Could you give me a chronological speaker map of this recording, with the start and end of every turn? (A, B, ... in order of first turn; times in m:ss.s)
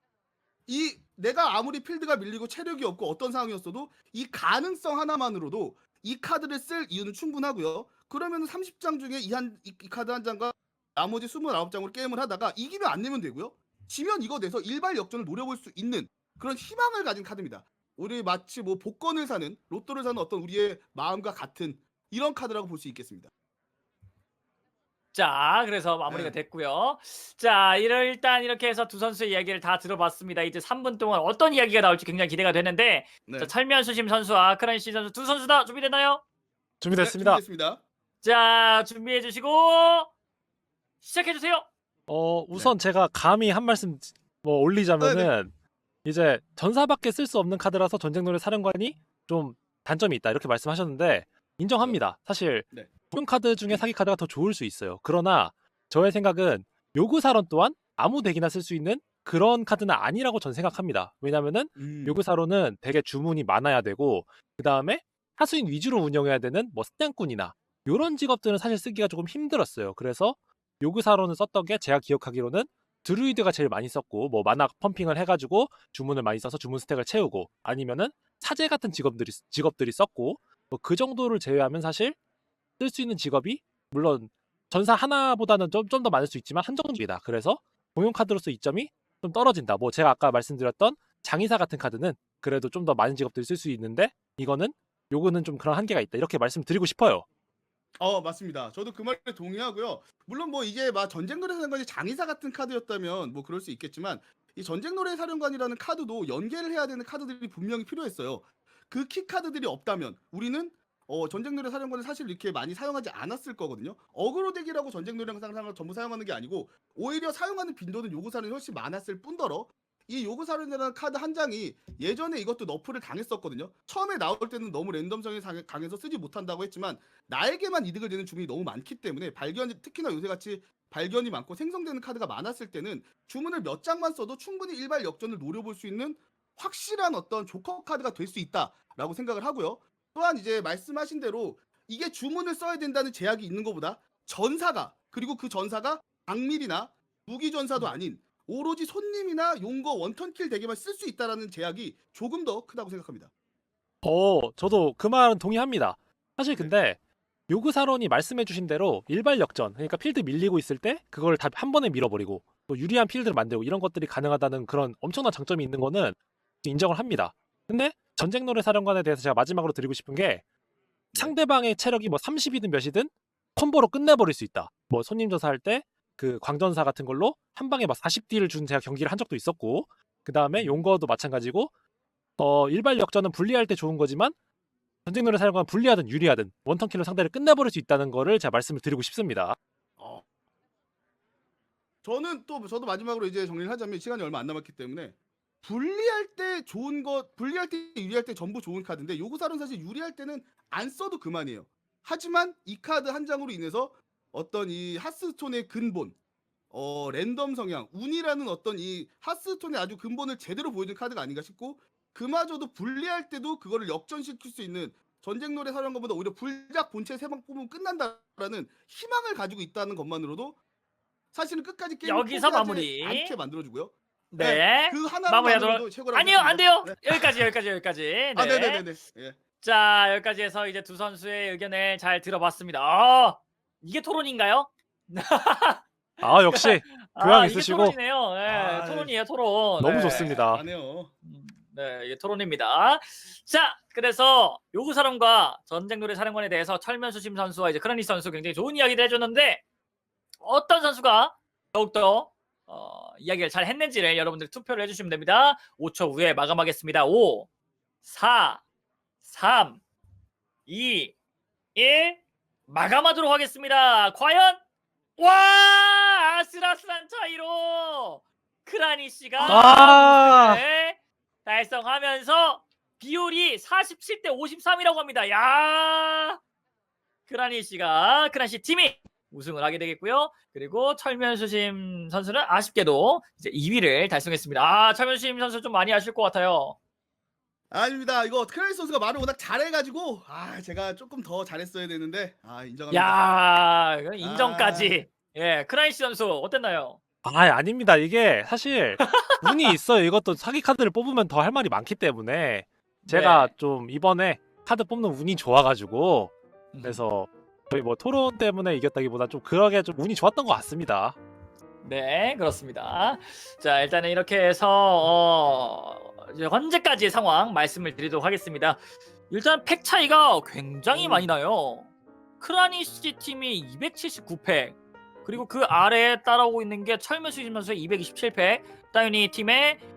0:00.7-0:23.3 A
0:25.1-0:36.2 B
0:26.1-0:26.3 A
0:33.3-0:33.5 A
0:36.8-0:37.4 C
0:37.0-0:37.8 A
0:38.2-0:40.1 B
0:41.0-0:41.6 B
0:42.1-0:45.5 C
0:45.0-0:45.3 A
0:46.0-1:22.2 C
1:01.8-1:02.2 A
1:22.8-1:37.2 C
1:38.0-2:33.3 A
2:34.0-2:37.0 C
2:37.5-2:50.4 C
2:51.1-3:01.7 C
3:02.4-3:04.3 C
3:05.0-3:09.6 C
3:10.0-3:10.2 A
3:12.0-3:26.2 A
3:26.7-3:40.6 A
3:41.3-3:47.4 A
3:42.0-3:43.3 B
3:44.3-3:48.8 B
3:48.4-3:49.4 A
3:49.6-3:55.8 B
3:56.2-3:58.0 C
3:56.4-4:00.4 B
3:58.5-3:59.1 A
3:59.8-4:00.6 C
4:00.0-4:01.1 A
4:01.2-4:09.6 B
4:10.4-4:17.5 B
4:18.0-4:18.6 B
4:19.2-4:19.8 B
4:20.7-4:21.1 B
4:21.7-4:24.6 B
4:25.2-4:36.4 B
4:29.4-4:30.6 C
4:37.3-4:46.8 B
4:47.7-4:53.2 A
4:52.9-4:57.0 B
4:54.2-4:55.0 A
4:57.2-5:11.1 C
4:59.0-4:59.5 B
5:03.0-5:03.5 B
5:06.7-5:07.0 B
5:11.8-5:18.8 B
5:19.3-5:21.9 B
5:20.9-5:21.3 A
5:22.4-5:29.8 B